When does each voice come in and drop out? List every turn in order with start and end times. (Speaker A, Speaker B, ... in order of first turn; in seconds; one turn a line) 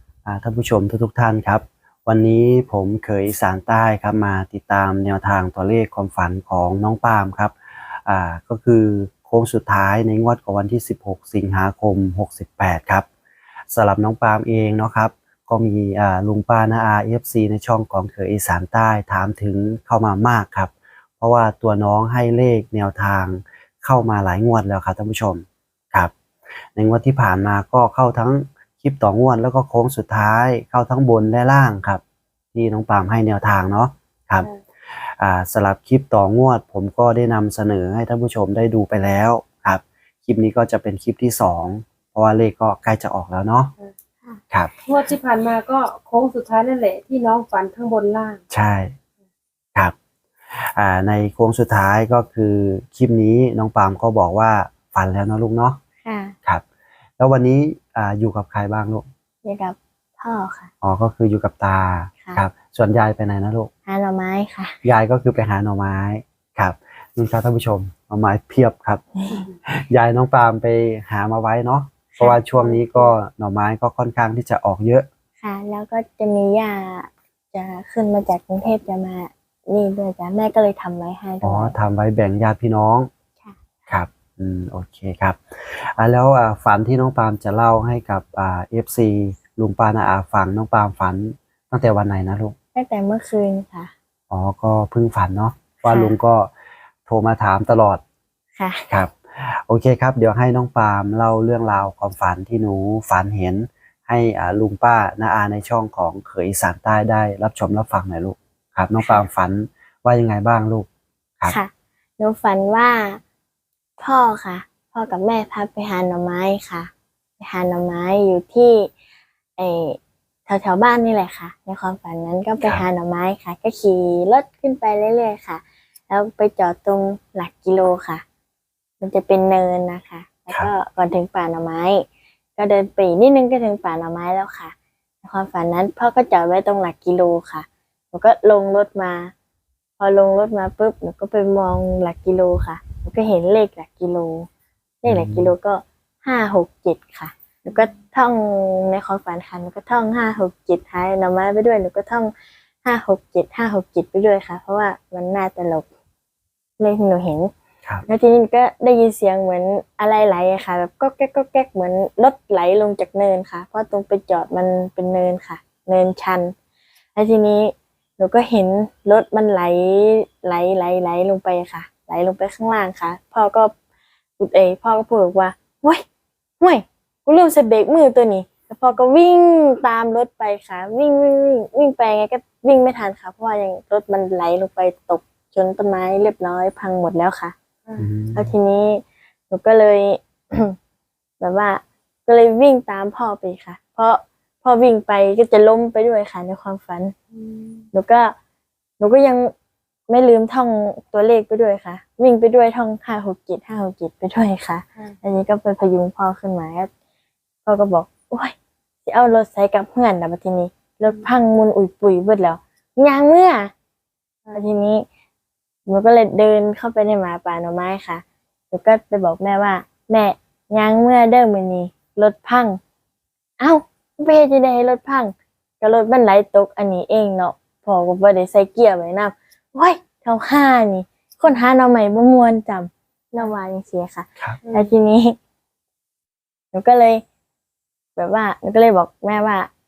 Speaker A: 0.2-13.1
Speaker A: 13.7-26.1
Speaker A: 26.8-32.0
Speaker A: 32.5-43.7
Speaker B: 44.9-48.4
Speaker A: 48.5-48.9
Speaker A: 50.5-55.8
Speaker C: 56.0-56.3
Speaker A: 57.2-59.0
Speaker C: 59.4-60.7
Speaker A: 60.8-63.7
Speaker C: 63.9-64.8
Speaker A: 64.8-69.0
Speaker C: 69.2-69.5
Speaker A: 69.7-75.1
Speaker C: 72.2-72.8
Speaker C: 75.4-81.8
Speaker A: 81.4-83.1
Speaker A: 83.9-92.5
Speaker C: 92.7-93.9
Speaker A: 94.3-96.5
Speaker C: 95.8-96.1
Speaker A: 97.1-98.0
Speaker C: 98.5-98.9
Speaker A: 98.9-110.9
Speaker C: 109.0-109.2
Speaker C: 111.5-113.2
Speaker C: 114.0-118.9
Speaker C: 119.6-128.2
Speaker C: 129.0-139.3
Speaker C: 140.0-144.5
Speaker C: 145.0-152.3
Speaker A: 145.0-145.5
Speaker C: 152.8-155.8
Speaker C: 156.8-157.5
Speaker C: 158.1-166.5
Speaker C: 167.1-173.7
Speaker C: 174.4-176.0
Speaker C: 176.6-187.5
Speaker A: 188.0-188.5
Speaker C: 188.3-190.8
Speaker C: 191.4-197.1
Speaker B: 197.3-197.9
Speaker C: 197.9-198.3
Speaker C: 199.0-199.5
Speaker C: 200.1-206.9
Speaker C: 207.6-213.7
Speaker C: 214.5-215.1
Speaker C: 215.8-222.8
Speaker C: 223.6-235.4
Speaker B: 234.6-234.9
Speaker C: 236.7-237.2
Speaker C: 238.2-239.7